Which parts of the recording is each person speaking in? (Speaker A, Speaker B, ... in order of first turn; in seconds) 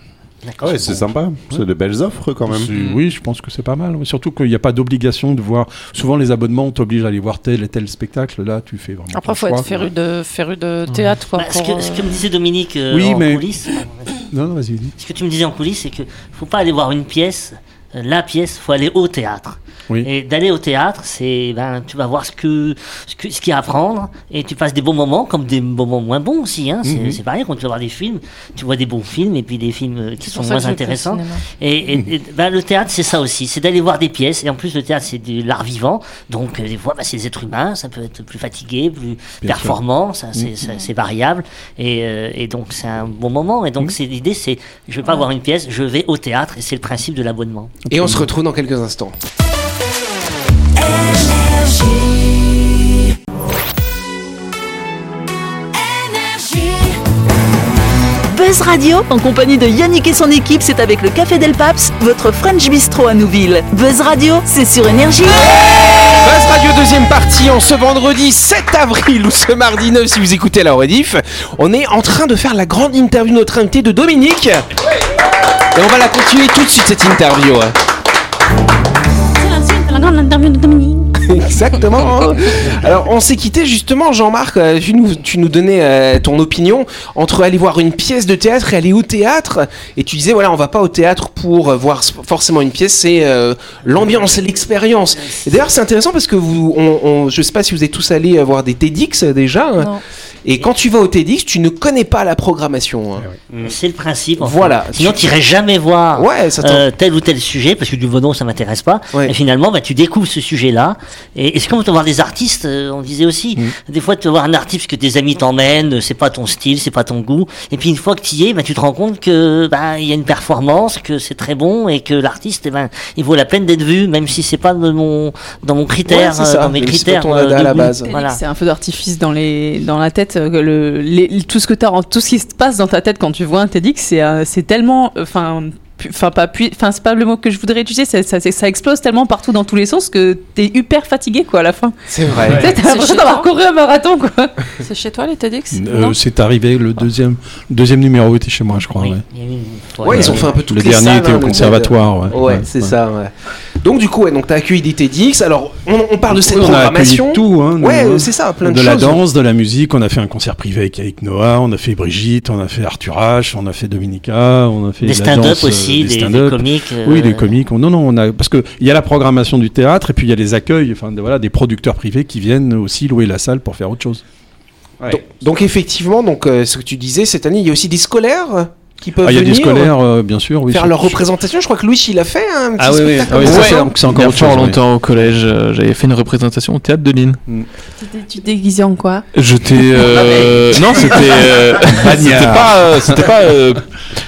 Speaker A: 0.4-1.1, 11.3-14.2, 15.0-47.7, 103.6-128.4, 148.9-150.6, 165.0-167.6
Speaker B: 0.6-2.7, 103.5-103.7
Speaker C: 2.5-9.7, 12.9-13.5, 14.3-14.9, 26.8-27.2, 39.4-39.8, 47.9-48.3, 145.7-149.2, 150.1-152.9, 156.3-174.2, 179.2-181.3, 182.8-184.8, 191.9-193.3
Speaker D: 2.7-3.0, 10.8-11.1, 183.4-187.4, 189.3-193.9
Speaker E: 9.1-12.2, 30.2-31.4, 142.7-143.5, 144.8-146.2
Speaker F: 47.9-49.1, 66.0-74.7, 75.7-77.7, 81.2-103.3, 104.4-105.3, 106.1-106.8, 126.0-128.1, 142.1-142.7, 150.0-159.2, 175.1-179.9, 180.7-183.9
Speaker G: 58.3-65.6
Speaker H: 79.4-81.1, 128.0-141.9, 142.4-144.6, 188.0-189.2